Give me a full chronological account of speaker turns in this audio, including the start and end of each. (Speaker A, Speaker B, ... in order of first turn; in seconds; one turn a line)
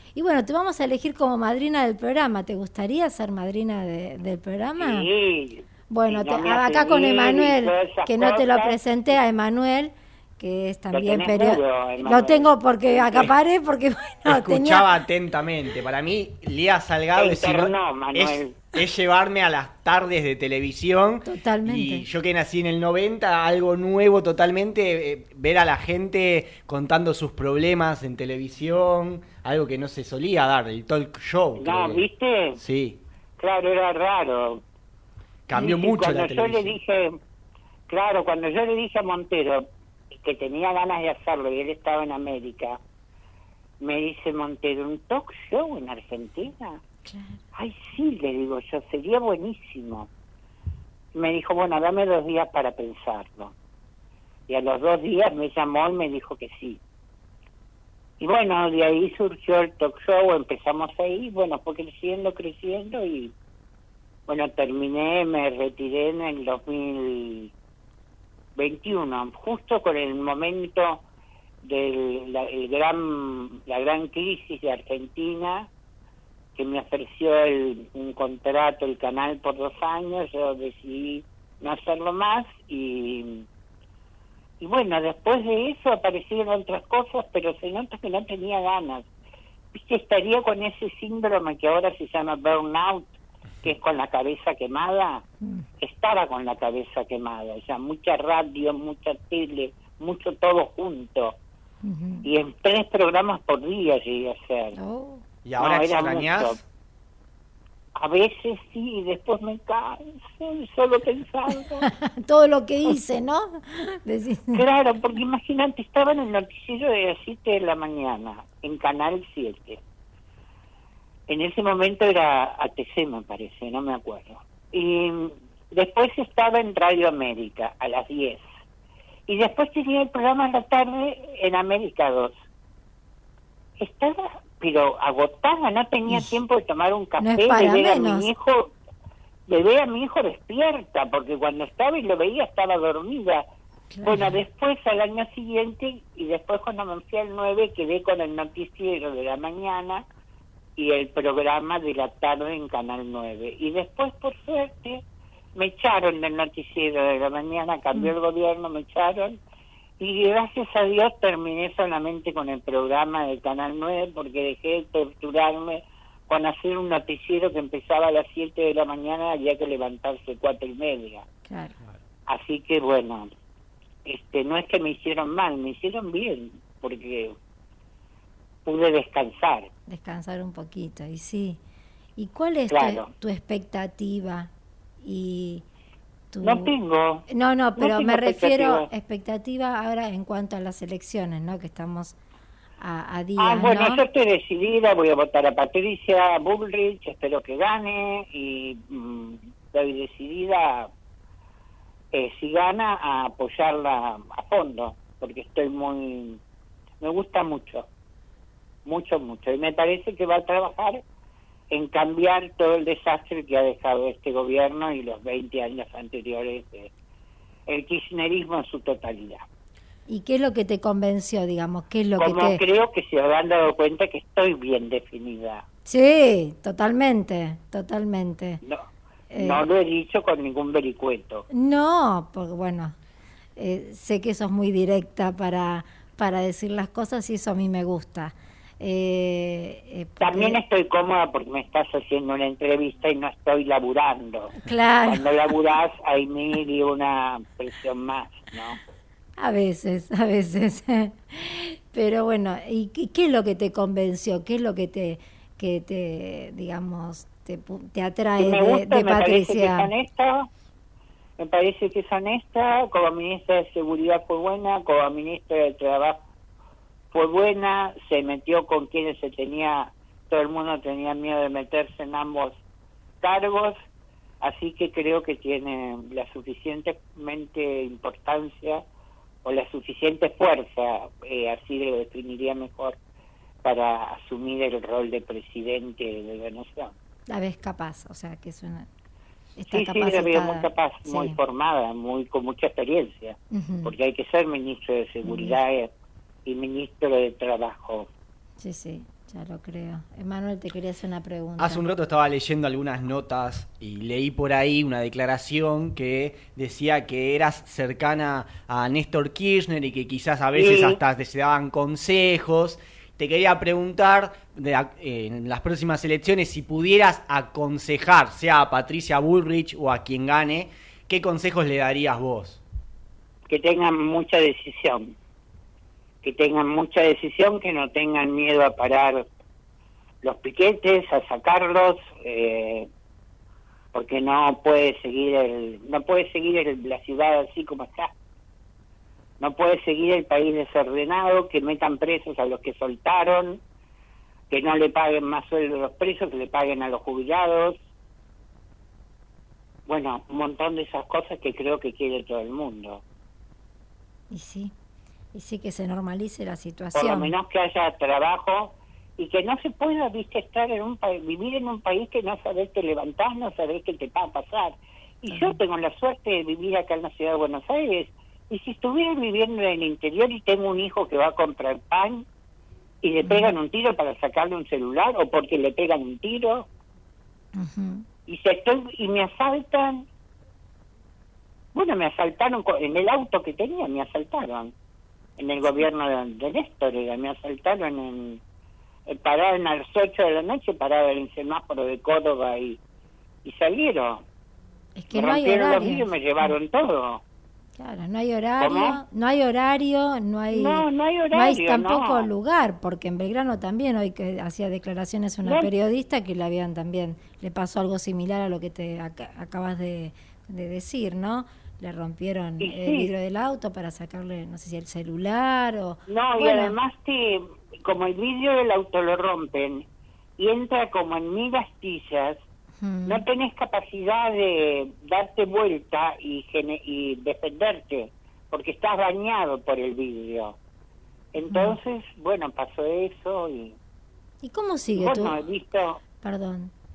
Speaker A: 0.1-5.0
Speaker B: 4.8-8.7
Speaker A: 5.9-14.9
Speaker B: 10.9-13.3
Speaker C: 14.2-32.0
Speaker B: 17.1-18.6
Speaker A: 21.2-22.1
Speaker B: 31.6-32.6
Speaker C: 32.5-33.0
Speaker B: 33.4-34.6
Speaker C: 35.5-36.8
Speaker B: 35.5-37.1
Speaker B: 37.9-42.8
Speaker B: 43.8-46.8
Speaker A: 47.0-47.4
Speaker B: 47.5-50.1
Speaker B: 51.1-53.5
Speaker B: 54.5-56.8
Speaker B: 58.2-63.3
Speaker B: 64.3-67.5
Speaker B: 68.5-71.0
Speaker B: 71.6-75.7
Speaker B: 76.5-83.4
Speaker B: 84.6-89.0
Speaker B: 89.7-95.2
Speaker B: 95.8-101.4
Speaker A: 101.8-102.3
Speaker B: 102.2-104.7
Speaker A: 104.8-105.2
Speaker C: 105.4-106.6
Speaker B: 105.6-106.6
Speaker B: 108.0-111.8
Speaker A: 111.8-114.6
Speaker B: 114.5-119.8
Speaker B: 121.3-128.4
Speaker B: 129.3-132.3
Speaker B: 133.8-138.7
Speaker A: 137.2-138.3
Speaker B: 139.5-143.4
Speaker A: 143.9-144.3
Speaker B: 144.0-150.0
Speaker B: 150.8-155.0
Speaker B: 155.6-159.4
Speaker B: 160.0-171.2
Speaker A: 171.5-171.7
Speaker B: 172.3-173.3
Speaker B: 174.1-177.3
Speaker B: 178.7-179.7
Speaker A: 179.9-181.6
Speaker A: 182.2-184.5
Speaker B: 182.7-183.1
Speaker A: 185.0-185.6
Speaker A: 186.3-186.7
Speaker B: 186.4-187.2
Speaker A: 187.3-192.2
Speaker B: 187.8-188.9
Speaker A: 192.8-194.0
Speaker B: 193.4-200.9
Speaker B: 202.1-206.4
Speaker B: 207.0-207.8
Speaker B: 208.8-211.0
Speaker B: 211.7-216.9
Speaker B: 217.7-219.4
Speaker A: 220.1-222.6
Speaker B: 222.2-225.6
Speaker A: 225.8-228.6
Speaker A: 229.3-229.6
Speaker B: 229.3-231.4
Speaker A: 231.5-232.9
Speaker A: 233.6-240.6
Speaker B: 240.2-244.6
Speaker A: 244.6-245.2
Speaker B: 245.1-248.8
Speaker A: 249.4-259.9
Speaker B: 258.4-260.5
Speaker B: 261.4-266.2
Speaker B: 267.1-272.6
Speaker B: 273.2-273.7
Speaker B: 274.4-278.8
Speaker B: 279.4-282.9
Speaker B: 283.6-286.9
Speaker A: 287.3-288.9
Speaker A: 289.6-291.4
Speaker B: 289.7-295.9
Speaker A: 293.5-293.9
Speaker A: 295.2-295.6
Speaker B: 296.4-298.1
Speaker A: 298.6-301.8
Speaker C: 301.6-322.6
Speaker B: 310.6-311.0
Speaker B: 323.5-325.1
Speaker B: 326.2-329.2
Speaker B: 330.2-332.9
Speaker B: 333.9-338.1
Speaker B: 339.4-343.6
Speaker B: 344.5-347.8
Speaker B: 349.9-353.0
Speaker A: 354.3-354.7
Speaker A: 355.3-357.3
Speaker B: 356.9-372.2
Speaker A: 365.3-365.6
Speaker B: 373.0-376.7
Speaker A: 373.2-373.5
Speaker A: 377.6-378.0
Speaker B: 378.3-380.1
Speaker B: 381.7-384.7
Speaker B: 385.4-388.4
Speaker B: 389.1-392.8
Speaker B: 393.4-394.2
Speaker A: 395.0-396.5
Speaker B: 395.1-397.2
Speaker A: 397.8-416.8
Speaker B: 398.6-399.0
Speaker B: 400.5-402.3
Speaker B: 405.4-405.7
Speaker B: 412.6-413.1
Speaker B: 416.1-419.8
Speaker B: 420.4-422.4
Speaker A: 422.8-423.2
Speaker B: 423.1-430.6
Speaker B: 431.3-433.8
Speaker A: 431.4-431.8
Speaker A: 434.4-435.4
Speaker B: 434.9-436.0
Speaker A: 436.2-436.7